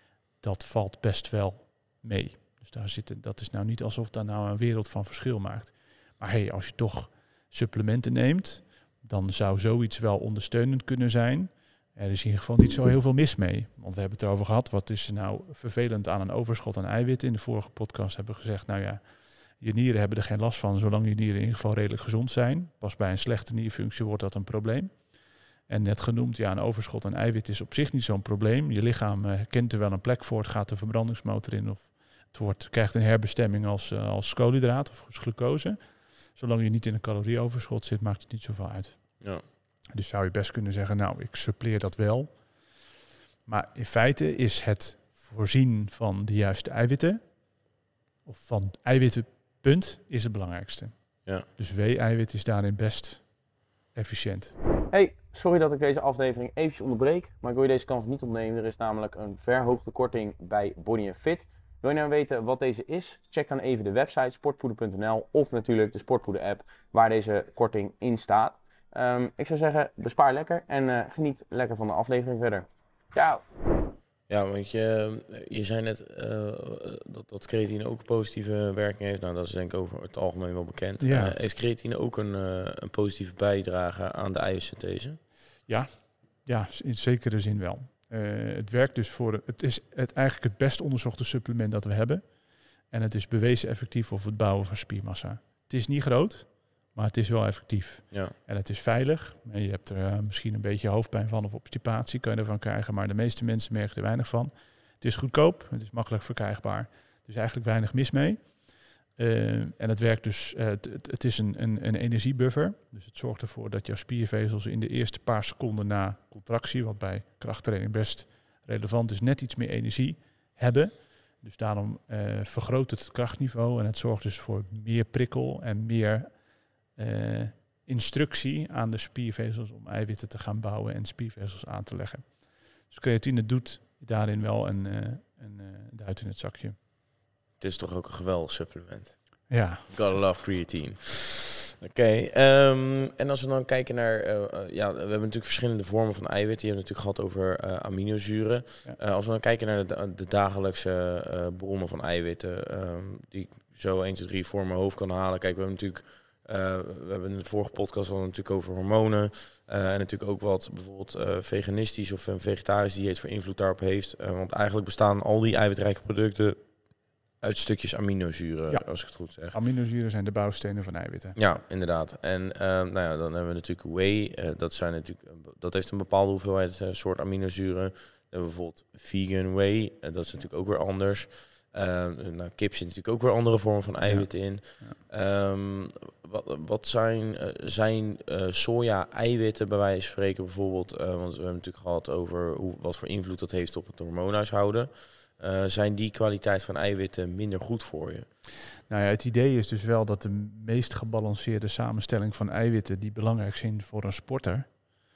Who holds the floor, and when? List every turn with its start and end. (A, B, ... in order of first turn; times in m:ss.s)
0:00.4-0:19.0 A
0:19.6-0:25.0 A
0:25.7-0:39.2 A
0:39.9-0:42.4 A
0:43.4-0:47.2 A
0:48.2-0:53.3 A
0:53.9-0:54.5 A
0:54.9-1:13.4 B
1:14.3-1:25.2 C
1:21.0-1:21.4 A
1:25.7-1:32.2 A
1:32.9-1:48.6 A
1:49.2-2:06.3 A
2:07.0-2:12.3 A
2:12.8-2:16.8 A
2:17.6-2:46.6 C
2:19.5-2:20.0 A
2:47.4-2:49.5 C
2:49.5-2:51.4 A
2:51.3-3:18.2 C
3:04.0-3:05.0 A
3:18.9-3:24.7 A